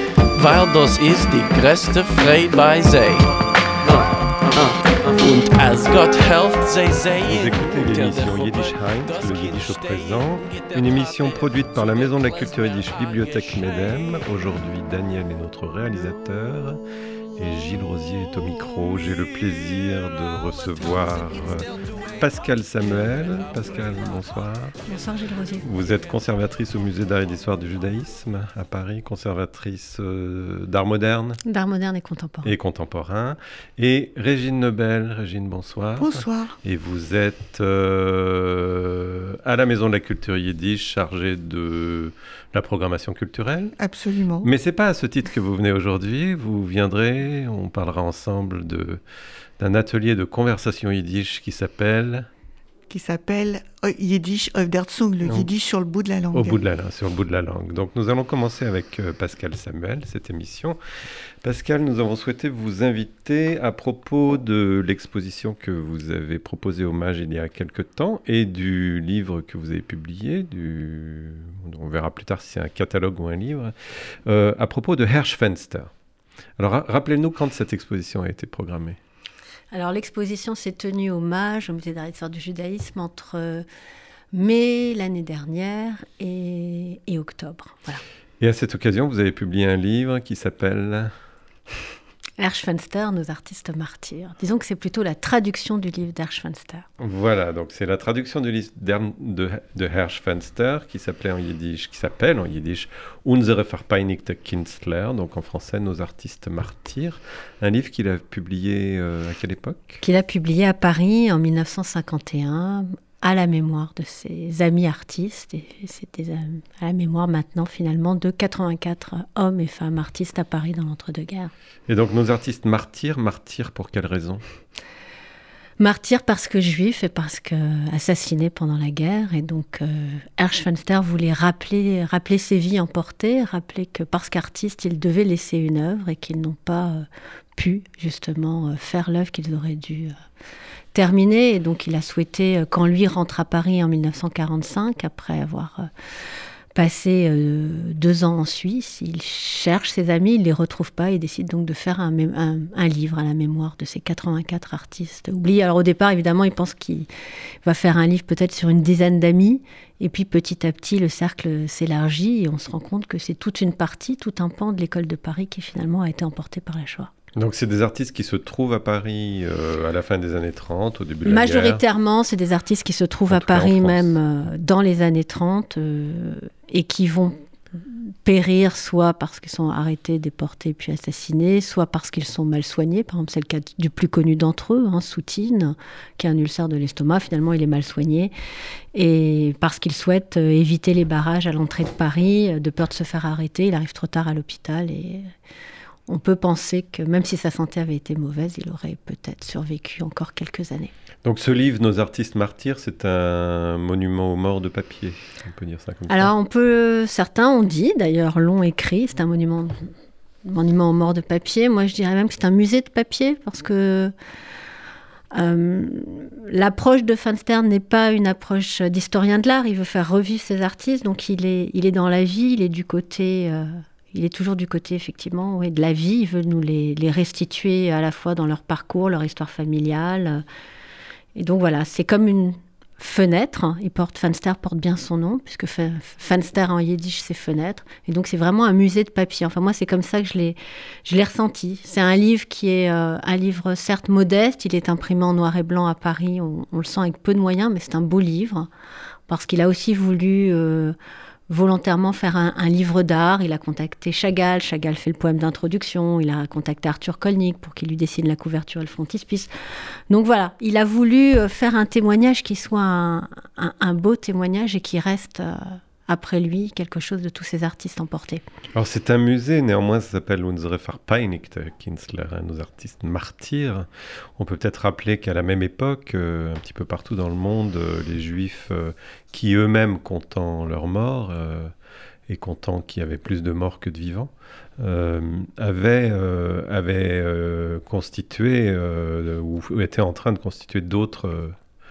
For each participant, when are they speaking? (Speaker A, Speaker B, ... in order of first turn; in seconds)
Speaker A: 0.3-14.3, 20.4-24.3
Speaker B: 7.2-16.8, 17.4-24.8, 25.6-31.4, 32.4-43.7, 44.4-49.0, 49.6-52.3, 55.2-55.5, 56.3-60.8, 61.4-75.9, 76.6-79.0, 88.4-91.1, 97.0-110.0, 121.9-124.4, 167.3-171.8, 173.3-174.2, 201.2-206.3, 268.7-281.7, 282.3-291.6
Speaker C: 24.9-25.6, 31.4-32.5, 79.7-83.6, 84.3-88.0, 92.4-96.8, 110.0-121.5, 125.8-140.1, 140.9-145.9, 146.7-157.1, 157.6-167.1, 171.2-188.3, 188.9-195.3, 196.1-200.9, 206.1-209.9, 210.4-214.1, 215.3-230.4, 231.3-248.7, 249.3-250.9, 251.5-268.4
Speaker D: 36.0-36.6, 43.8-44.5, 52.9-56.6